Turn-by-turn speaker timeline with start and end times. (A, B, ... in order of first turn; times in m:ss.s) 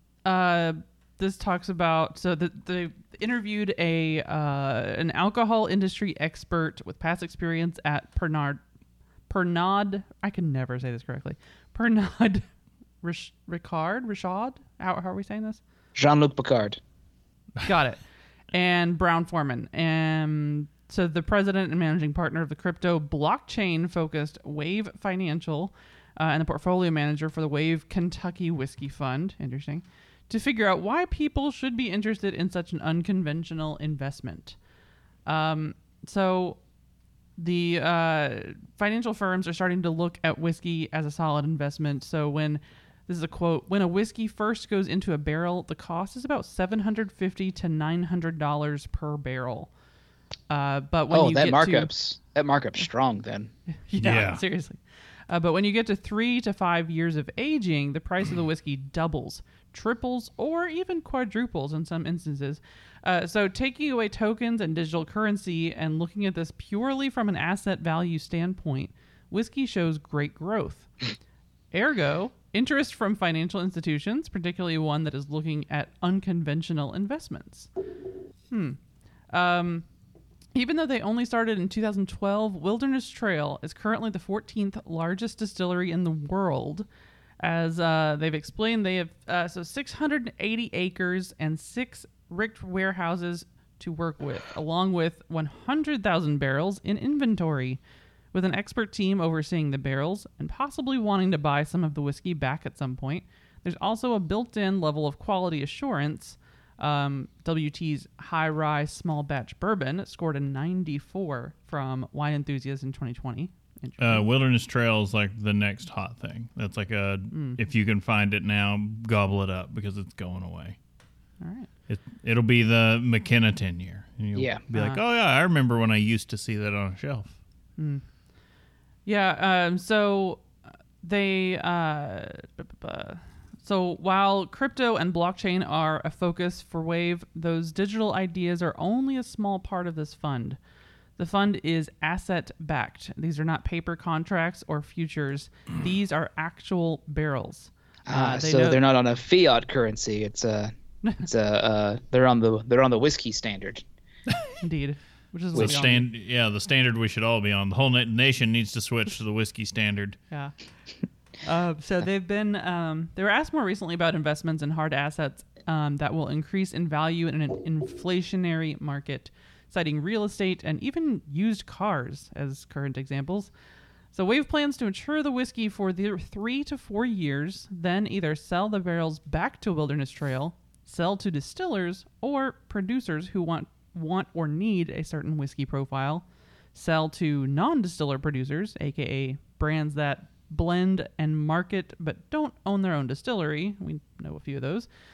0:00.2-0:08.6 A
0:09.3-0:12.5 A
0:13.0-0:15.6 A
0:16.0-0:16.8 B
0:17.6-0:34.6 A
0:35.3-0:36.6 A
0:37.4-0:49.7 A
0:50.5-0:51.9 A
0:51.1-0:53.5 B
0:53.9-1:10.9 A
0:54.0-0:54.4 C
1:11.7-1:17.7 A
1:18.5-1:19.9 A
1:20.5-1:26.9 A
1:27.4-1:37.8 A
1:38.3-1:54.3 A
1:54.0-2:00.8 C
1:57.3-1:57.6 A
2:01.4-2:01.7 A
2:01.9-2:07.4 C
2:04.4-2:04.6 B
2:04.7-2:05.0 A
2:07.8-2:08.0 A
2:09.0-2:20.6 A
2:21.2-2:28.8 A
2:28.1-2:33.8 B
2:34.6-2:36.1 A
2:35.5-2:40.2 C
2:41.4-2:53.5 A
2:54.1-3:14.9 A